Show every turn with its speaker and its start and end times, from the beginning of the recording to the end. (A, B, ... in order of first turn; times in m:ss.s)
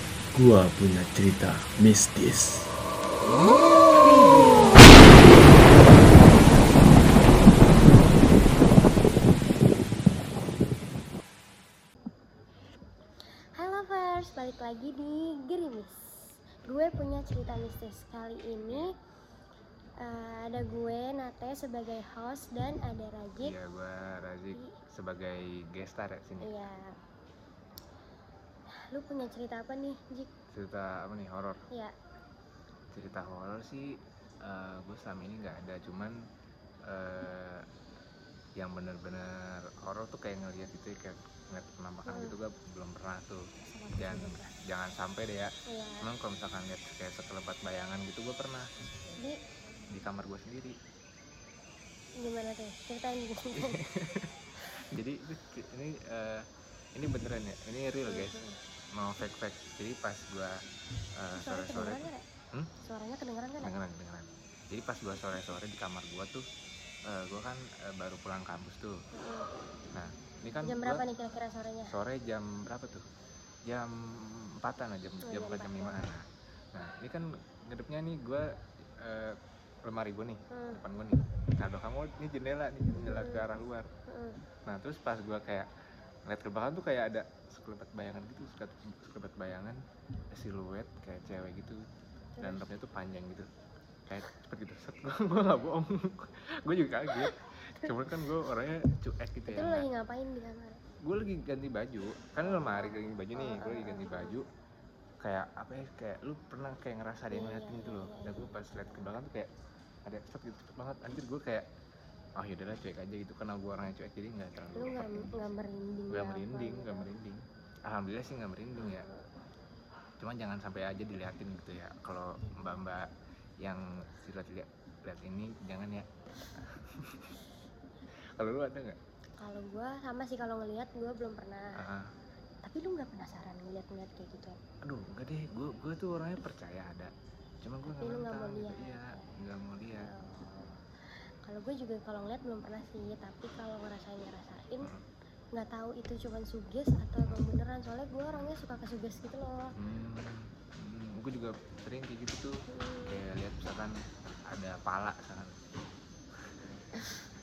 0:00.3-0:02.7 A
0:13.6-0:18.9 B
0:20.0-0:23.6 B
0:23.4-0:26.6 C
0:26.4-0:26.9 B
0:28.9-0:30.3 B
0:30.5-0:31.6 C
0:32.9-0:33.9 C
0:34.4-0:36.2 C
0:36.9-0:37.6 C
0:38.6-0:43.4 C
0:42.1-0:42.3 B
0:43.6-0:44.5 B
0:44.0-0:45.5 C
0:45.7-0:46.0 B
0:46.0-0:48.6 C
0:49.9-0:50.8 C
0:52.2-0:53.8 B
0:53.5-0:56.4 C
0:57.0-0:58.4 C
0:58.1-0:58.6 B
0:59.0-1:00.6 C
1:01.2-1:02.7 C
1:01.4-1:02.2 B
1:02.8-1:03.7 B
1:03.6-1:06.4 C
1:07.1-1:08.9 C
1:09.1-1:09.5 B
1:09.9-1:11.0 C
1:10.6-1:11.9 B
1:11.9-1:13.0 C
1:13.7-1:18.5 C
1:15.3-1:16.0 B
1:19.0-1:23.9 C
1:20.5-1:20.8 B
1:23.2-1:23.5 B
1:24.1-1:24.4 B
1:24.7-1:25.7 C
1:26.3-1:29.8 C
1:30.3-1:31.8 C
1:32.4-1:32.7 B
1:32.4-1:33.5 C
1:34.1-1:39.9 C
1:37.8-1:38.2 B
1:39.5-1:40.8 B
1:41.0-1:44.4 C
1:42.4-1:44.4 B
1:45.2-1:49.5 C
1:47.3-1:49.2 B
1:50.1-1:51.6 C
1:52.4-1:55.5 C
1:54.8-1:57.1 B
1:56.1-1:59.1 C
1:58.8-1:59.2 B
2:00.2-2:03.1 C
2:03.6-2:06.1 C
2:06.7-2:07.3 C
2:08.4-2:09.0 C
2:09.4-2:11.7 B
2:11.8-2:12.1 C
2:12.7-2:14.6 B
2:14.8-2:17.1 C
2:17.6-2:20.1 C
2:18.0-2:19.3 B
2:20.0-2:20.8 B
2:21.4-2:24.9 B
2:25.5-2:29.7 B
2:29.8-2:32.5 C
2:32.7-2:33.2 B
2:33.1-2:33.9 C
2:34.5-2:35.6 C